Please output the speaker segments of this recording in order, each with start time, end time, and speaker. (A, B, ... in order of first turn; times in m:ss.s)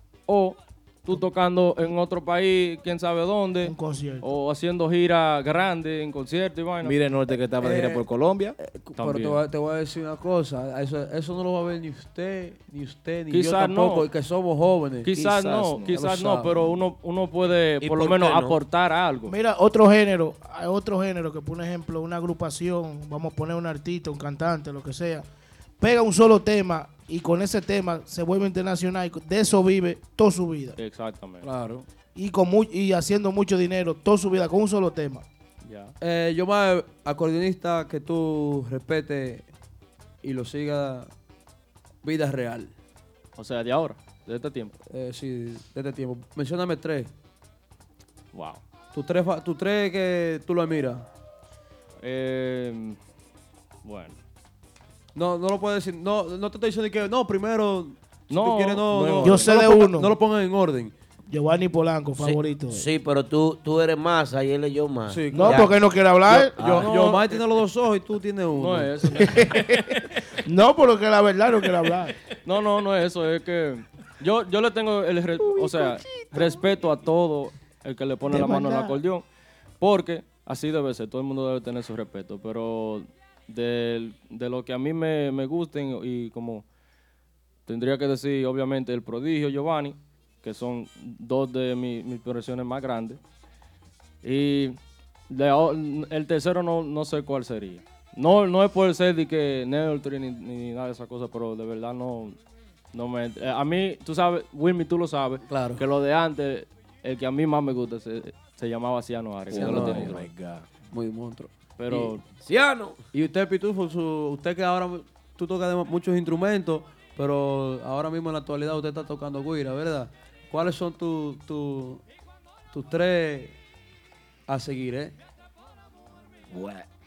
0:00.3-0:07.0 A
0:03.6-0:04.3 B
0:06.8-0:08.6 C
0:07.6-0:08.0 D
0:08.6-0:15.1 D
0:09.0-0:09.4 A
0:13.3-0:14.1 A
0:15.0-0:19.3 A
0:15.2-0:16.0 C
0:15.9-0:16.7 D
0:17.8-0:18.6 E
0:19.3-0:25.2 B
0:25.8-0:30.8 B
0:30.8-0:31.5 A
0:31.4-0:31.8 D
0:32.1-0:35.2 B
0:35.6-0:35.9 A
0:36.0-0:39.5 D
0:40.2-0:41.1 D
0:42.0-0:42.7 D
0:43.4-0:44.7 A
0:44.9-0:47.1 D
0:48.3-0:48.6 A
0:48.9-0:51.1 D
0:52.0-0:53.0 A
0:53.8-0:54.2 A
0:55.1-1:00.9 D
0:58.3-0:58.9 A
0:58.9-0:59.5 C
0:59.2-1:00.2 B
1:01.3-1:02.8 B
1:02.2-1:05.7 E
1:05.1-1:05.7 D
1:05.3-1:06.9 B
1:06.3-1:09.4 D
1:06.6-1:06.9 E
1:06.8-1:07.2 A
1:08.5-1:09.6 A
1:10.3-1:12.1 B
1:12.4-1:19.2 A
1:18.4-1:18.9 C
1:19.8-1:26.6 A
1:27.6-1:33.2 A
1:34.2-1:34.8 A
1:35.3-1:42.4 A
1:42.9-1:50.3 A
1:45.5-1:45.8 D
1:49.5-1:50.6 C
1:49.5-1:50.2 D
1:50.9-1:52.2 D
1:51.8-1:52.2 A
1:52.4-1:53.0 E
1:53.1-2:02.0 D
2:02.7-2:03.5 D
2:04.5-2:05.1 D
2:06.5-2:06.9 C